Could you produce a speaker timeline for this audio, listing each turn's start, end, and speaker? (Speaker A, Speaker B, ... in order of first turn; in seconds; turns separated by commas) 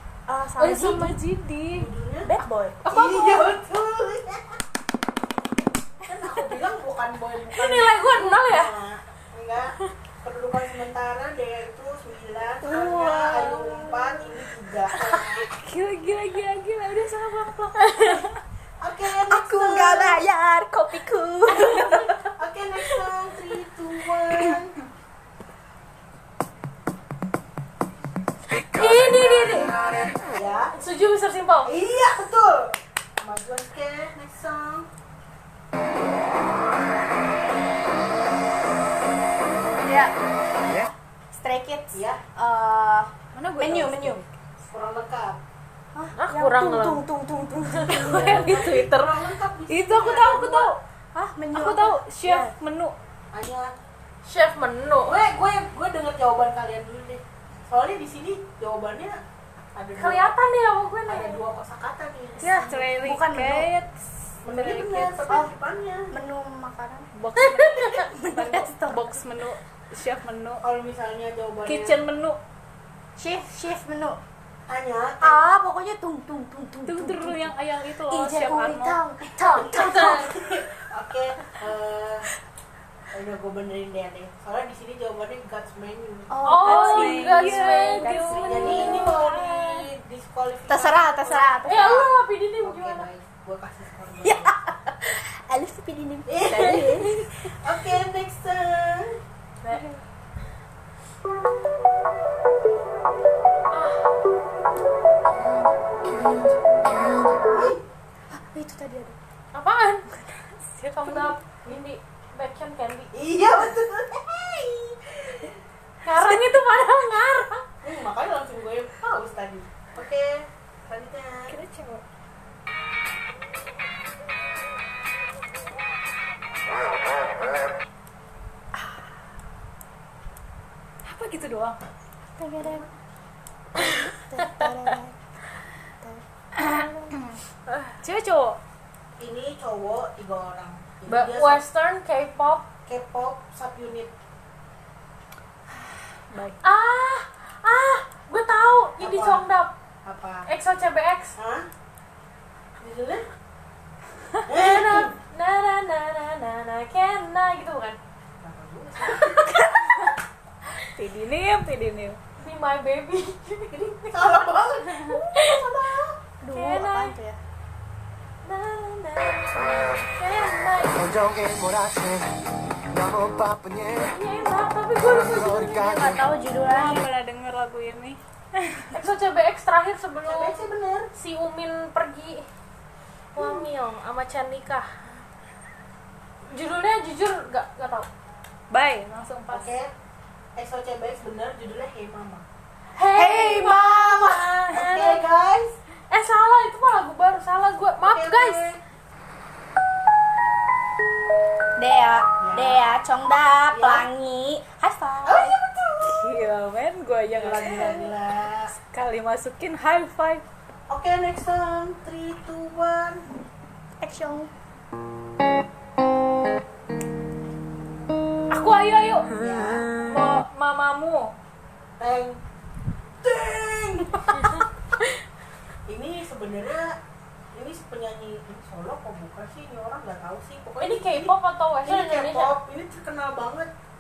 Speaker A: 0.3-1.2, Speaker B: 0.6-1.9, Speaker C: 1.8-2.3, Speaker A: 2.2-2.8, Speaker B: 2.9-3.4, Speaker C: 2.9-4.6, Speaker C: 6.0-15.5, Speaker D: 7.5-8.7, Speaker A: 12.6-14.2, Speaker B: 15.4-18.4, Speaker D: 17.8-18.2, Speaker C: 18.8-20.2, Speaker A: 19.2-22.2, Speaker C: 22.4-24.8, Speaker D: 28.7-29.7, Speaker E: 28.7-29.5, Speaker C: 30.3-30.7, Speaker D: 30.7-31.7, Speaker C: 31.6-34.9, Speaker A: 39.9-40.1, Speaker A: 41.3-44.2, Speaker C: 41.9-42.2, Speaker B: 43.3-44.3, Speaker C: 44.7-45.4, Speaker A: 46.0-48.5, Speaker D: 46.2-47.0, Speaker D: 47.8-48.3, Speaker B: 47.9-50.8, Speaker C: 48.2-50.7, Speaker A: 51.1-52.0, Speaker B: 51.5-53.0, Speaker D: 52.2-52.5, Speaker C: 53.3-53.7, Speaker D: 54.2-55.2, Speaker C: 55.1-59.2, Speaker C: 59.8-60.3, Speaker D: 60.0-61.4, Speaker C: 61.1-62.5, Speaker A: 62.4-63.7, Speaker B: 62.4-65.1, Speaker C: 64.4-66.1, Speaker A: 64.8-65.5, Speaker A: 66.1-67.1, Speaker B: 67.1-70.6, Speaker D: 67.3-68.1, Speaker A: 68.0-69.1, Speaker C: 70.6-72.0, Speaker B: 71.7-72.4, Speaker A: 73.2-74.2, Speaker C: 74.7-75.5, Speaker A: 75.2-77.5, Speaker B: 76.9-79.0, Speaker A: 78.1-80.4, Speaker D: 79.4-80.3, Speaker C: 80.0-82.3, Speaker C: 83.1-86.3, Speaker A: 86.3-89.2, Speaker D: 86.5-88.5, Speaker B: 86.6-89.8, Speaker C: 88.5-91.6, Speaker A: 90.7-92.1, Speaker D: 91.7-93.1, Speaker C: 92.6-94.5, Speaker A: 94.2-97.5, Speaker C: 96.3-99.2, Speaker D: 103.7-104.1, Speaker C: 107.5-107.8, Speaker A: 108.3-109.2, Speaker D: 109.5-110.1, Speaker D: 110.8-113.1, Speaker C: 113.1-115.4, Speaker D: 116.0-117.7, Speaker C: 117.8-121.6, Speaker B: 121.5-122.0, Speaker B: 131.1-131.8, Speaker A: 132.4-132.9, Speaker C: 132.6-132.9, Speaker A: 133.8-135.2, Speaker A: 136.0-137.2, Speaker B: 136.6-137.4, Speaker B: 138.0-138.6, Speaker C: 139.2-141.6, Speaker D: 141.1-142.7, Speaker C: 142.9-144.1, Speaker B: 146.3-146.6, Speaker D: 146.6-149.7, Speaker C: 149.0-149.4, Speaker C: 150.1-150.5, Speaker D: 150.5-151.4, Speaker C: 151.4-151.7, Speaker C: 152.8-153.2, Speaker C: 154.5-155.1, Speaker D: 154.5-158.0, Speaker C: 158.4-159.6, Speaker D: 159.1-160.1, Speaker B: 160.9-162.2, Speaker D: 162.4-164.4, Speaker C: 163.7-166.2, Speaker D: 165.1-165.6, Speaker A: 166.4-167.4, Speaker D: 166.5-167.1, Speaker D: 168.4-171.0, Speaker E: 170.9-172.3, Speaker E: 172.9-174.2, Speaker D: 173.9-175.8, Speaker E: 175.0-176.3, Speaker A: 175.5-177.1, Speaker B: 176.6-178.9, Speaker D: 178.9-180.6, Speaker C: 180.2-181.1, Speaker D: 181.2-182.5, Speaker D: 183.3-184.9, Speaker D: 186.5-188.1, Speaker B: 188.7-189.7, Speaker C: 189.5-189.9, Speaker C: 190.6-192.4, Speaker D: 192.9-195.2, Speaker A: 193.1-194.4, Speaker C: 194.2-195.8, Speaker D: 196.1-198.7, Speaker C: 198.0-198.8, Speaker A: 201.8-205.6, Speaker C: 202.4-202.8, Speaker C: 203.7-204.1, Speaker C: 205.2-206.2, Speaker B: 206.0-208.1, Speaker C: 207.3-208.7, Speaker B: 208.8-210.4, Speaker C: 210.9-213.3, Speaker A: 214.0-214.5, Speaker B: 218.5-219.3, Speaker C: 219.4-219.9, Speaker E: 219.6-219.9, Speaker B: 220.0-221.3, Speaker C: 222.0-222.4, Speaker C: 223.2-224.5, Speaker D: 224.3-224.7, Speaker C: 225.9-227.0, Speaker C: 227.5-233.7, Speaker D: 230.8-232.5